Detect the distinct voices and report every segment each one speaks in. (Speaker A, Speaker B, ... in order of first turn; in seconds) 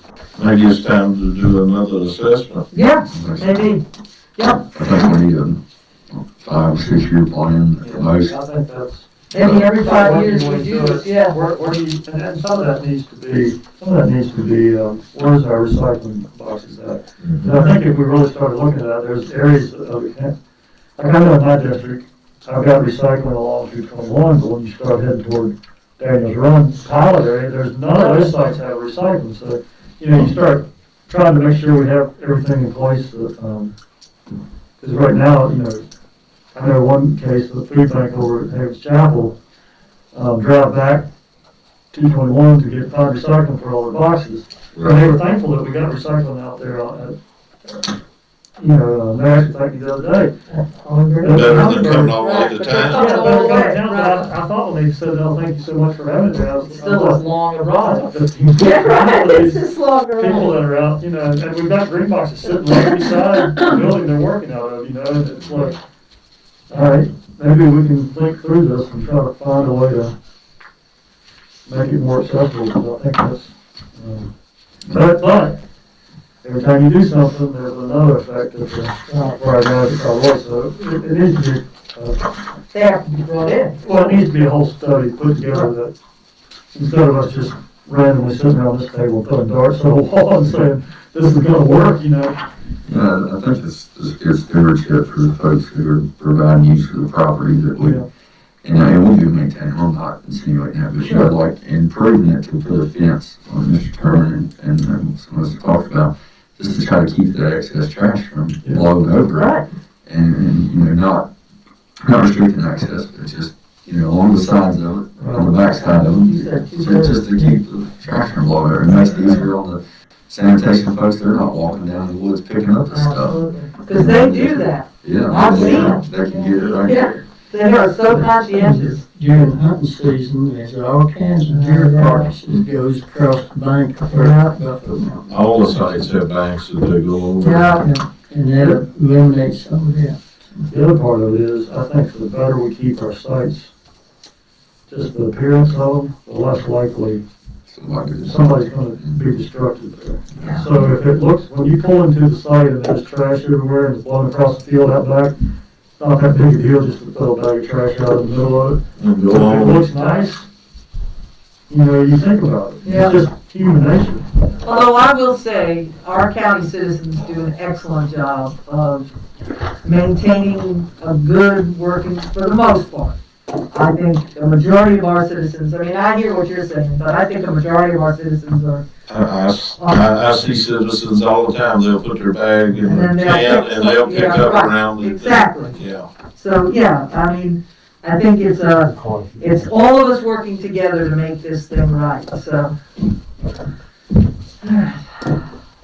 Speaker A: 0.4-2.6, 17.3-17.6, 44.8-45.0, 51.3-53.2, 135.3-137.7, 159.0-159.9, 179.1-186.1
Speaker B: 2.7-3.8, 4.4-4.7, 9.3-11.4, 27.9-28.3, 50.9-54.3, 56.6-60.6, 79.1-79.4, 82.7-84.2, 109.3-109.7, 115.8-117.5, 122.9-126.0, 126.8-129.0, 131.6-132.2, 137.4-137.8, 150.4-150.7, 160.0-160.3, 162.8-163.2, 164.6-169.1, 169.8-173.2, 173.7-178.9, 182.8-185.8, 186.3-192.8, 194.6-195.0
Speaker C: 3.1-3.8, 4.6-8.4, 9.4-9.7, 92.8-98.0, 98.6-111.3, 112.0-127.2, 147.7-149.2
Speaker D: 7.8-20.4, 21.0-33.7, 34.8-35.9, 36.5-39.4, 40.1-41.1, 41.9-47.2, 48.6-50.4, 51.2-52.2, 52.8-59.6, 60.2-65.8, 66.7-70.2, 71.7-74.3, 74.9-75.6, 76.4-82.2, 83.8-86.0, 86.7-92.4, 97.8-98.1, 115.2-115.5, 140.7-143.7, 144.9-147.2, 148.2-155.4, 156.0-160.5, 161.7-164.3
Speaker E: 128.6-135.2, 137.8-140.7